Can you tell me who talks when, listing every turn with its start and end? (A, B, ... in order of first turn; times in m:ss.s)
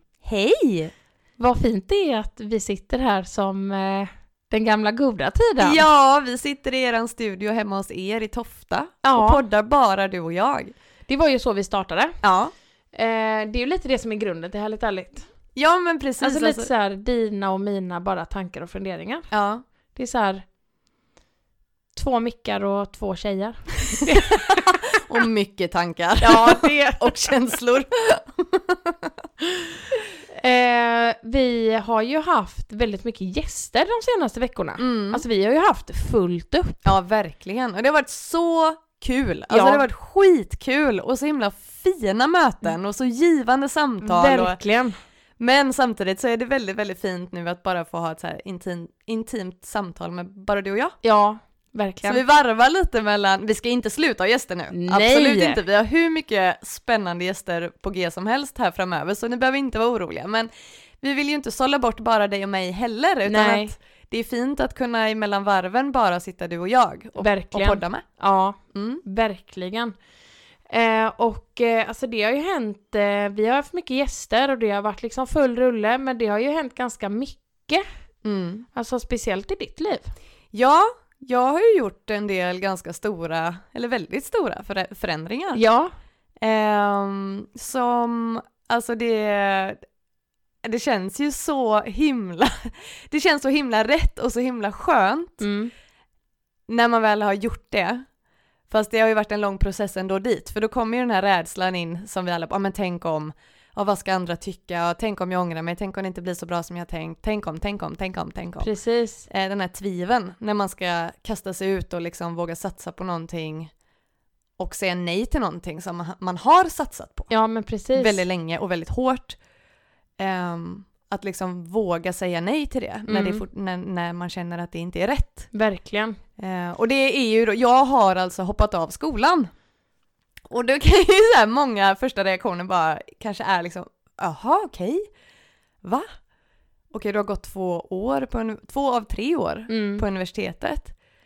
0:00.2-0:00.9 A
0:01.4-0:05.8 B
0:05.6-0:10.7 A
0:09.0-0:09.4 B
0:11.1-0:12.2 B
0:12.2-0:12.5 A
0:12.9-0:15.3 B
0:15.6-0:16.7 A
0:16.2-0:19.3 B
0:19.3-0:19.6 A
0:19.9-0:20.5 B
0:21.9-0:24.8 B
0:25.0-0:29.1 A
0:26.2-0:27.1 B
0:30.3-0:36.9 B
0:34.8-0:35.2 A
0:36.8-0:44.6 A
0:39.5-0:39.8 B
0:44.0-0:45.0 B
0:45.4-0:51.0 A
0:51.0-0:52.2 B
0:52.0-1:00.5 A
0:54.7-0:55.6 B
1:01.0-1:08.1 A
1:03.3-1:03.7 B
1:07.2-1:09.9 B
1:08.7-1:09.0 A
1:10.7-1:17.8 B
1:18.2-1:18.7 A
1:18.7-1:20.1 B
1:20.5-1:25.6 A
1:25.5-1:25.9 B
1:26.4-1:29.8 A
1:30.6-1:35.4 A
1:35.4-1:35.7 B
1:36.7-1:38.1 A
1:38.7-1:48.7 A
1:48.6-1:49.3 B
1:49.3-1:53.7 A
1:54.6-1:57.3 A
1:57.3-1:58.2 B
1:58.0-1:59.4 A
2:00.2-2:05.5 A
2:03.1-2:03.4 B
2:05.5-2:06.2 B
2:06.4-2:09.5 A
2:10.5-2:15.1 A
2:15.8-2:16.1 A
2:16.9-2:20.9 A
2:19.7-2:20.0 B